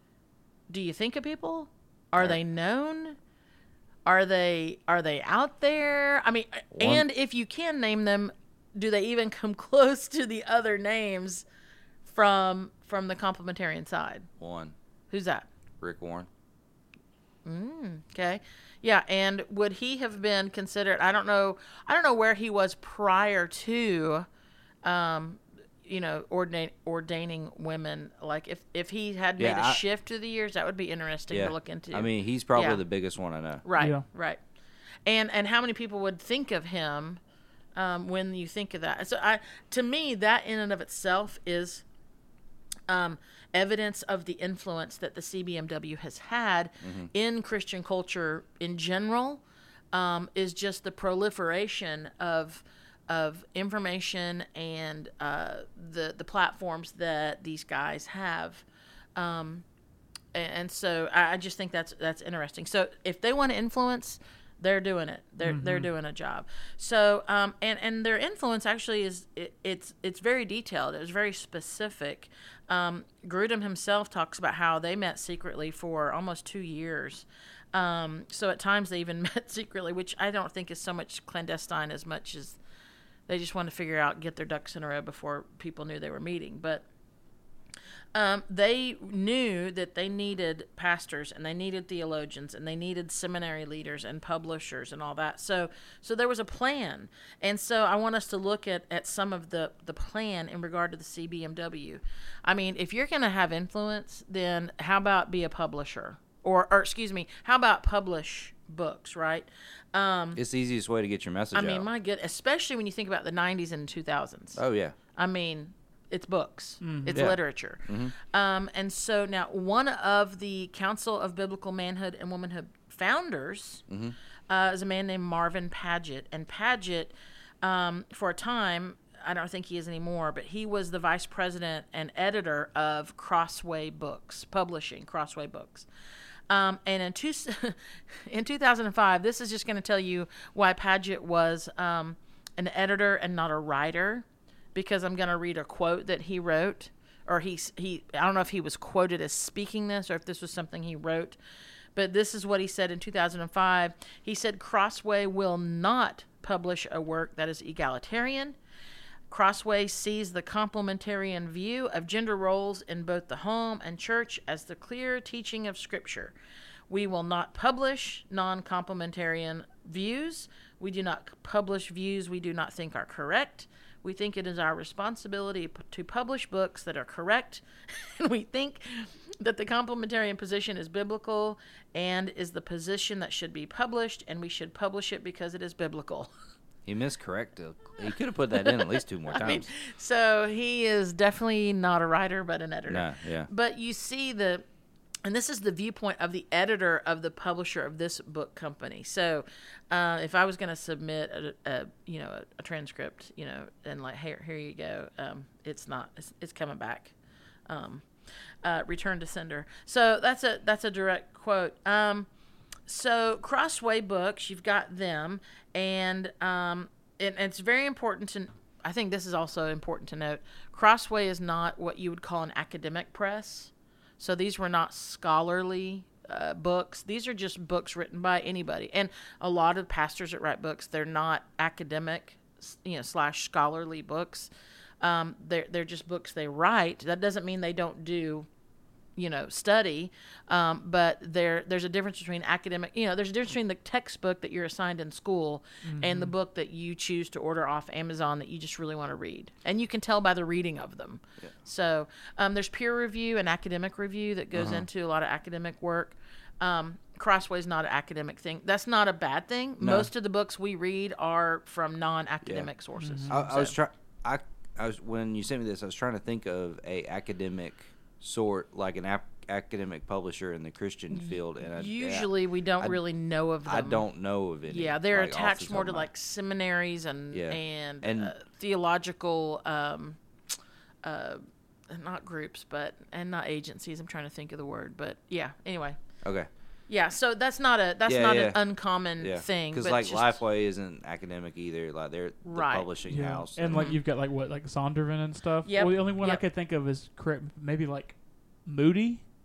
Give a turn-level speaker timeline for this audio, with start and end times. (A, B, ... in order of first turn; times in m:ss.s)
0:00.7-0:03.2 A
0:04.1-0:11.4 A
0:06.8-0:07.0 B
0:12.0-0:14.3 A
0:14.4-0:14.7 B
0:15.1-0:15.5 A
0:15.8-0:16.3 B
0:17.4-0:24.3 A
0:24.8-0:32.8 A
0:29.4-0:29.8 B
0:31.3-0:33.6 B
0:33.6-0:34.4 A
0:33.8-0:34.0 C
0:35.1-0:37.2 A
0:37.8-0:41.8 A
0:42.9-0:49.4 A
0:46.8-0:47.1 B
0:49.9-0:58.6 A
0:59.2-0:59.6 A
1:00.3-1:22.6 A
1:05.4-1:05.9 C
1:23.3-1:26.8 A
1:28.2-1:50.4 A
1:50.4-1:51.9 B
1:51.5-1:54.6 A
1:54.6-1:55.0 B
1:55.1-2:03.8 A
1:56.8-1:57.2 C
1:57.1-1:58.1 B
2:03.9-2:04.2 B
2:04.5-2:15.9 A
2:16.5-2:31.4 A
2:32.0-2:38.6 A
2:39.3-2:46.3 A
2:46.9-3:06.3 A
3:06.9-3:09.7 B
3:09.3-3:14.6 A
3:12.9-3:13.5 B
3:15.2-3:27.1 A
3:27.7-3:28.1 A
3:28.6-3:32.3 A
3:32.9-3:54.5 A
3:55.0-3:58.5 A
3:59.2-4:23.7 A
4:05.8-4:06.3 C
4:14.5-4:14.9 B
4:19.8-4:20.1 B
4:22.4-4:22.7 B
4:23.0-4:23.3 C
4:23.3-4:32.3 B
4:31.1-4:34.0 A
4:33.7-4:36.1 B
4:34.7-4:40.2 A
4:37.3-4:38.3 B
4:41.0-4:46.0 A
4:46.2-4:46.5 B
4:46.9-4:50.4 A
4:48.1-4:48.6 B
4:49.2-4:53.9 B
4:52.4-4:52.9 A
4:53.1-4:59.2 C
4:53.7-4:54.0 A
4:55.6-4:56.4 A